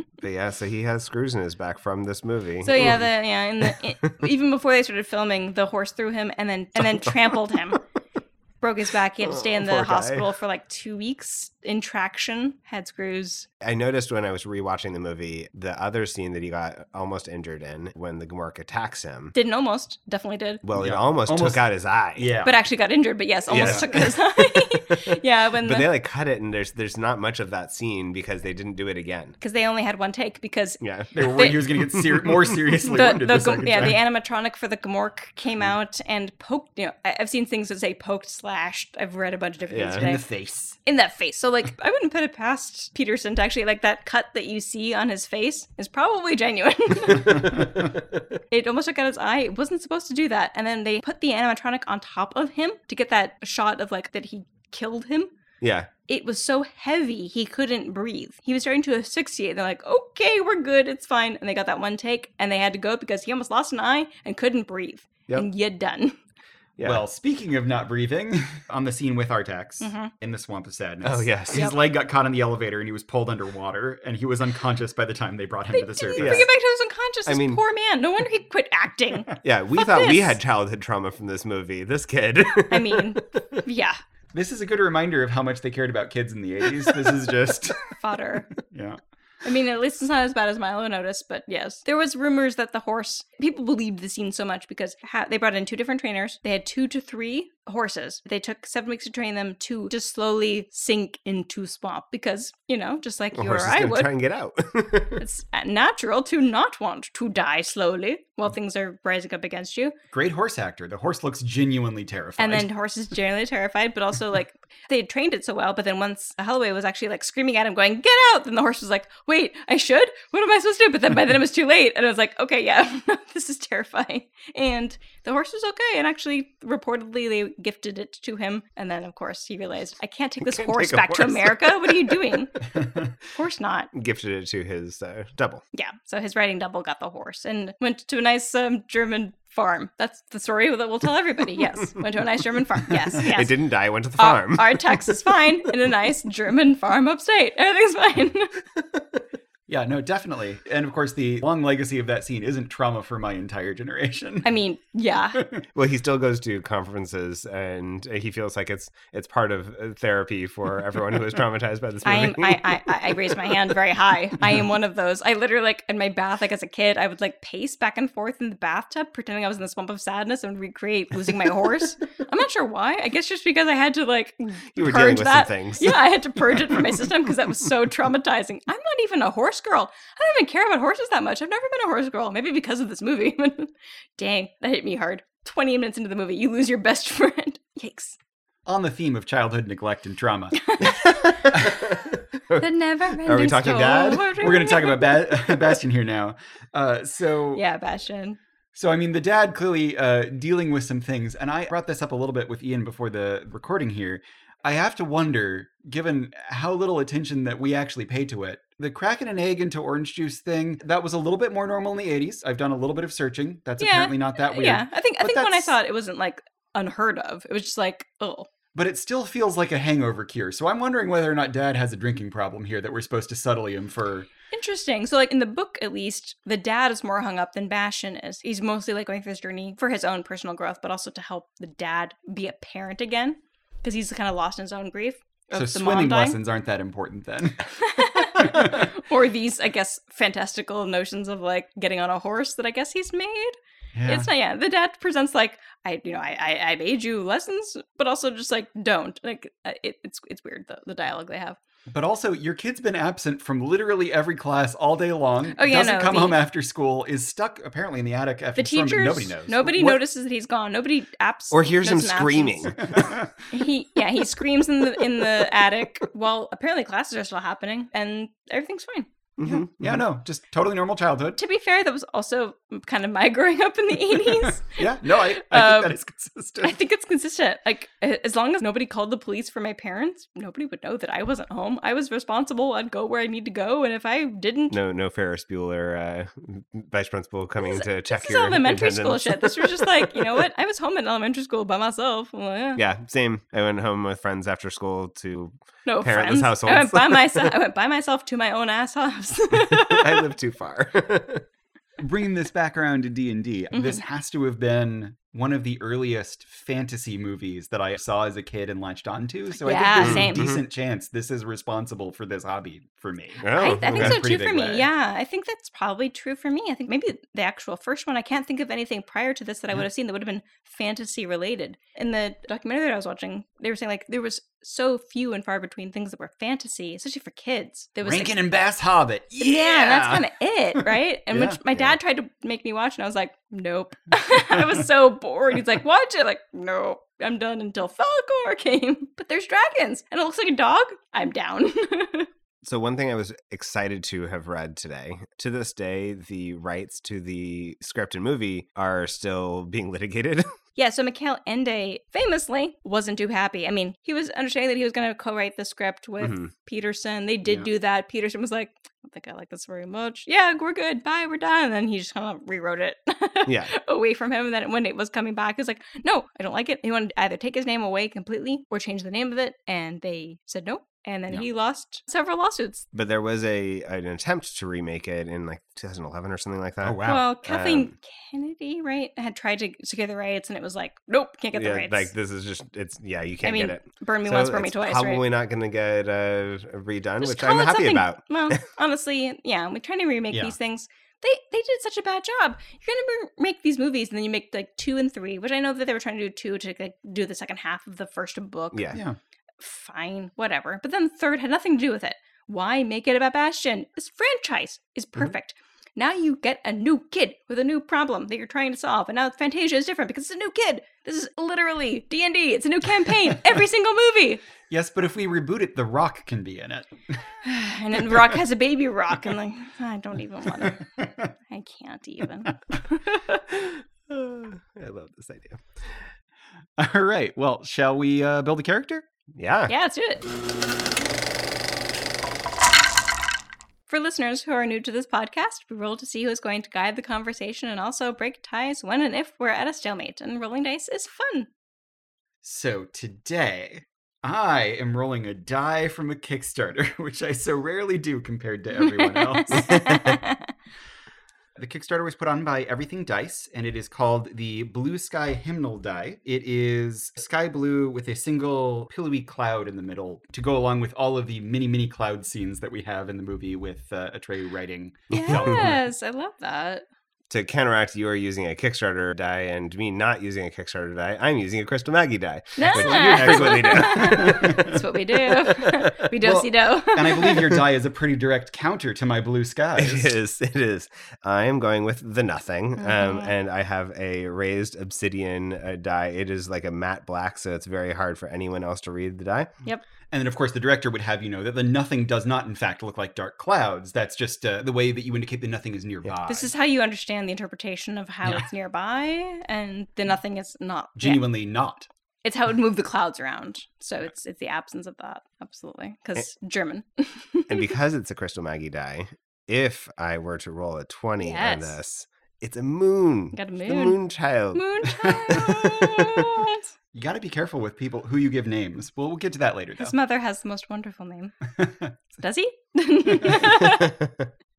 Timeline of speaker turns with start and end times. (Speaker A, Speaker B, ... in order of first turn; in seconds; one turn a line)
Speaker A: 0.2-3.1
Speaker B: 2.6-7.8
Speaker B: 8.6-13.5
Speaker A: 9.2-10.3
Speaker A: 13.6-19.4
Speaker B: 19.4-20.6
Speaker A: 20.6-22.3
Speaker C: 20.8-21.6
Speaker C: 22.2-22.6
Speaker B: 22.4-25.9
Speaker A: 23.5-25.1
Speaker C: 23.5-23.9
Speaker A: 25.6-29.4
Speaker B: 29.4-30.8
Speaker A: 30.8-31.1
Speaker C: 31.1-34.0
Speaker B: 31.3-31.7
Speaker B: 32.9-40.2
Speaker A: 39.7-40.1
Speaker C: 40.0-40.8
Speaker B: 40.8-47.9
Speaker C: 47.3-47.8
Speaker B: 48.5-55.3
Speaker A: 55.6-55.9
Speaker B: 56.1-66.2
Speaker A: 66.8-67.0
Speaker C: 66.8-76.5
Speaker B: 69.8-70.1
Speaker A: 71.0-71.7
Speaker B: 75.7-80.3
Speaker A: 76.2-76.5
Speaker A: 77.3-77.6
Speaker A: 79.4-83.6
Speaker B: 82.7-84.0
Speaker C: 84.3-87.8
Speaker B: 87.9-88.5
Speaker C: 88.7-89.0
Speaker B: 89.4-104.1
Speaker A: 103.3-105.2
Speaker B: 105.2-110.0
Speaker C: 110.1-112.7
Speaker B: 112.4-132.7
Speaker A: 130.4-132.4
Speaker C: 132.8-133.1
Speaker B: 133.3-133.9
Speaker A: 133.9-135.6
Speaker B: 135.7-143.5
Speaker A: 143.3-144.8
Speaker B: 144.2-148.5
Speaker C: 149.7-154.5
Speaker B: 154.4-155.4
Speaker A: 155.8-163.7
Speaker B: 162.1-188.2
Speaker A: 174.8-176.0
Speaker A: 176.6-176.8
Speaker C: 188.7-190.6
Speaker B: 190.6-191.7
Speaker A: 190.8-194.5
Speaker B: 192.6-195.6
Speaker C: 194.4-197.6
Speaker B: 197.6-198.4
Speaker C: 198.8-215.7
Speaker B: 213.8-218.5
Speaker C: 218.8-224.3
Speaker B: 224.5-236.4
Speaker C: 235.5-237.7
Speaker B: 237.8-243.6
Speaker C: 238.2-238.9
Speaker C: 243.9-244.3
Speaker B: 244.1-251.6
Speaker C: 251.9-260.0
Speaker B: 255.6-256.4
Speaker B: 258.6-262.8
Speaker A: 261.5-263.1
Speaker C: 262.8-263.4
Speaker B: 263.5-269.1
Speaker A: 269.4-269.8
Speaker C: 269.4-271.4
Speaker B: 271.4-276.0
Speaker C: 274.3-276.8
Speaker B: 276.6-284.8
Speaker A: 284.7-290.5
Speaker B: 287.6-292.8
Speaker A: 292.8-297.6
Speaker B: 295.9-300.3
Speaker A: 299.5-301.4
Speaker C: 302.0-314.9
Speaker B: 303.7-304.0
Speaker B: 309.6-310.6
Speaker A: 310.0-310.6
Speaker A: 313.4-314.2
Speaker B: 313.6-328.3
Speaker C: 328.0-330.3
Speaker B: 329.4-342.3
Speaker C: 330.8-331.6
Speaker A: 342.6-350.6
Speaker B: 350.8-372.9
Speaker A: 356.2-356.5
Speaker A: 363.5-363.7
Speaker A: 372.9-377.9
Speaker C: 376.8-377.2
Speaker B: 377.0-382.1
Speaker A: 381.5-388.6
Speaker B: 383.4-385.2
Speaker B: 387.2-398.9
Speaker A: 398.7-399.0
Speaker C: 398.9-399.2
Speaker B: 399.6-414.4
Speaker C: 414.7-416.9
Speaker B: 417.4-420.9
Speaker C: 420.6-421.3
Speaker B: 421.5-423.5
Speaker A: 423.6-426.0
Speaker C: 426.8-429.1
Speaker A: 429.4-429.7
Speaker B: 429.7-430.2
Speaker B: 433.9-441.5
Speaker C: 442.4-449.9
Speaker B: 448.8-450.5
Speaker A: 449.7-450.1
Speaker C: 451.6-465.8
Speaker B: 465.1-466.9
Speaker A: 465.2-465.7
Speaker A: 467.3-475.8
Speaker B: 472.6-477.6
Speaker C: 472.7-474.8
Speaker C: 476.2-480.1
Speaker A: 479.8-489.5
Speaker B: 482.8-483.3
Speaker C: 490.1-496.5
Speaker B: 496.3-501.3
Speaker C: 501.0-501.9
Speaker B: 502.2-507.7
Speaker A: 507.5-516.3
Speaker B: 511.2-511.8
Speaker B: 513.3-514.0
Speaker B: 514.5-516.7
Speaker C: 515.0-515.4
Speaker C: 516.9-519.9
Speaker B: 519.8-521.4
Speaker C: 521.6-521.9
Speaker B: 522.2-524.0
Speaker A: 523.8-524.2